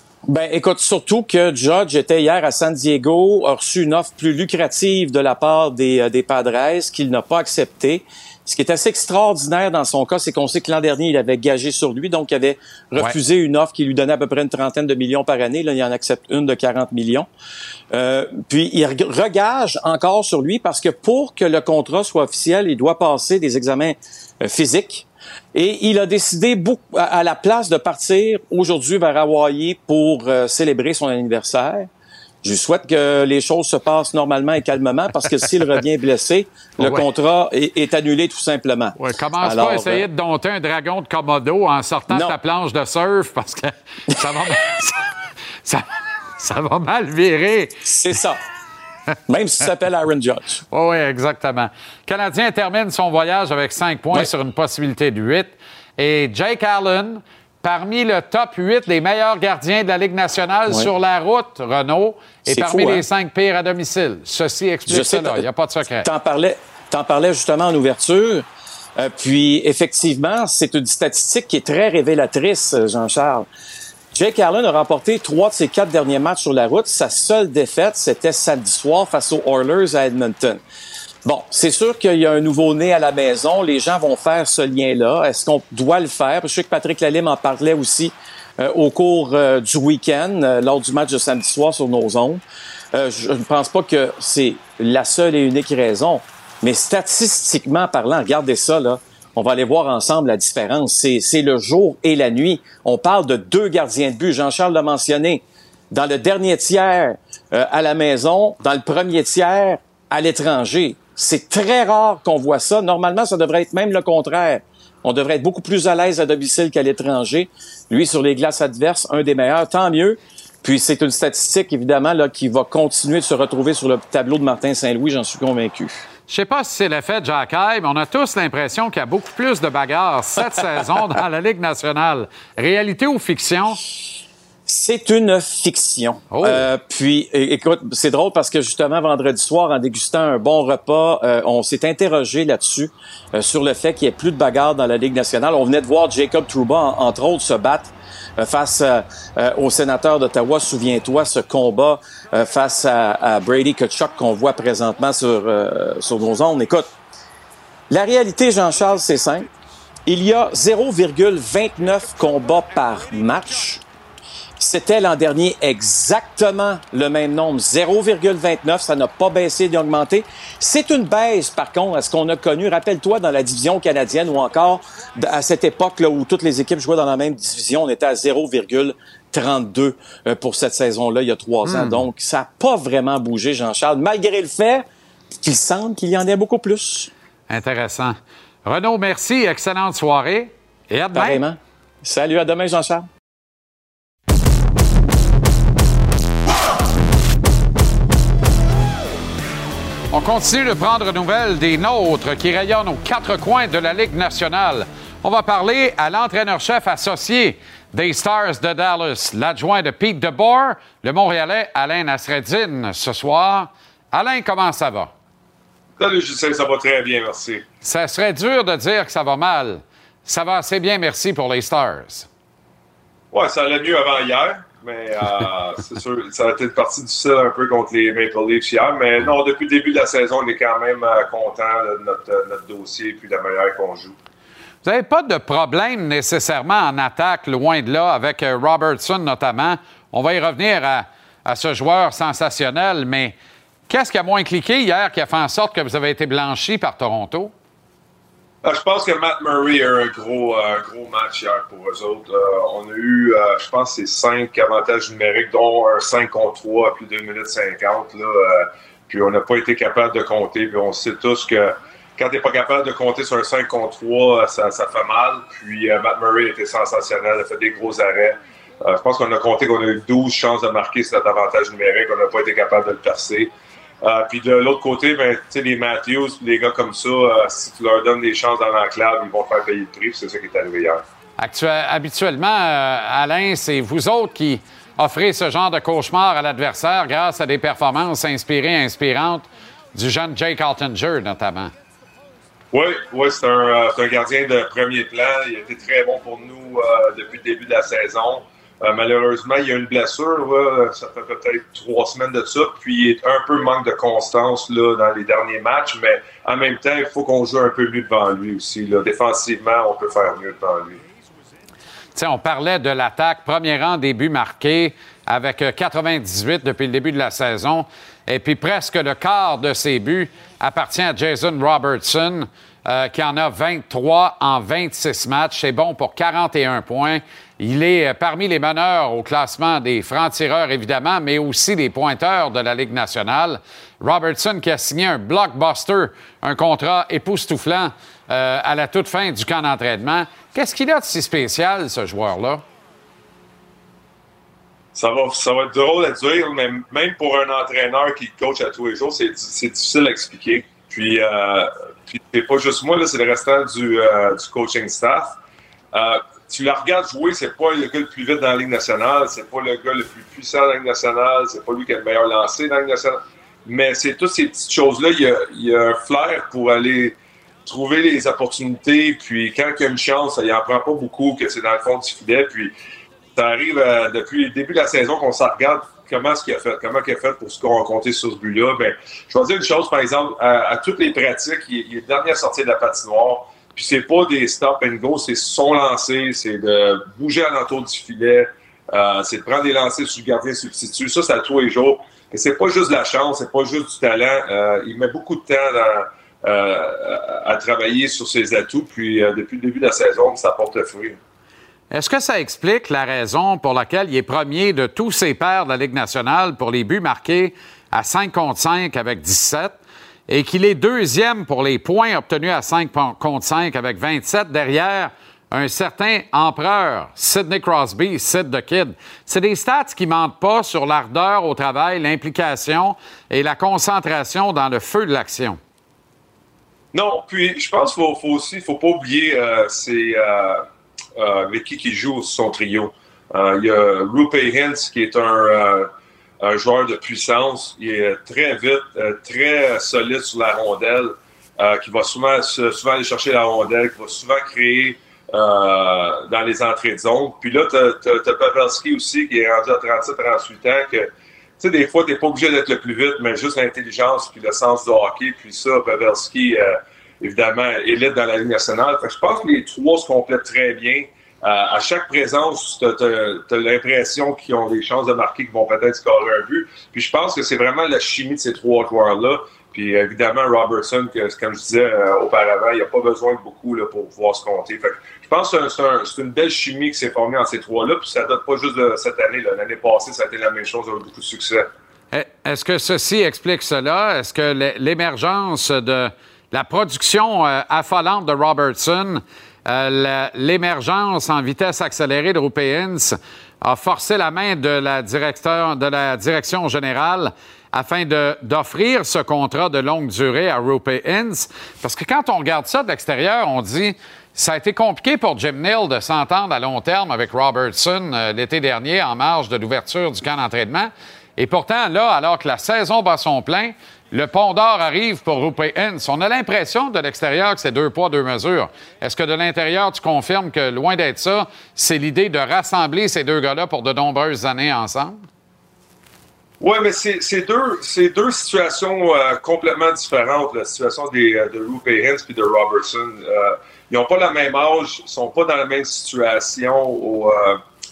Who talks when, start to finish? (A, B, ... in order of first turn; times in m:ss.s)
0:00.3-0:17.3 A
0:17.9-0:31.9 A
0:32.4-0:40.1 A
0:36.8-0:37.1 B
0:39.0-0:45.1 B
0:42.1-0:42.4 A
0:44.2-0:44.5 A
0:46.4-0:48.2 B
0:47.8-0:48.4 A
0:49.3-0:50.6 A
0:50.7-1:06.1 B
1:02.4-1:03.0 A
1:04.9-1:08.5 A
1:09.0-1:13.5 A
1:14.1-1:20.6 A
1:21.2-1:32.4 A
1:32.9-2:06.0 A
2:06.3-2:13.8 B
2:14.7-2:36.9 A
2:16.3-2:16.7 B
2:37.9-2:39.5 A
2:40.1-2:43.8 A
2:44.6-3:04.9 A
3:01.6-3:02.0 B
3:05.4-3:07.1 A
3:07.5-3:11.4 B
3:11.1-3:13.1 A
3:20.1-3:35.1 B
3:36.0-3:37.6 C
3:37.8-3:42.3 B
3:43.3-3:54.2 C
3:54.8-4:03.3 B
4:03.9-4:07.5 B
4:08.6-4:33.5 C
4:34.0-4:41.0 C
4:41.4-4:51.7 B
4:52.7-5:11.0 C
5:12.2-5:42.6 B
5:44.9-5:55.4 C
5:55.9-6:12.7 C
6:13.4-6:41.2 C
6:41.9-6:49.8 B
6:50.3-7:05.6 B
7:06.9-7:10.6 C
7:11.2-7:15.9 C
7:16.4-8:01.7 C
8:02.1-8:45.3 B
8:46.6-8:57.6 C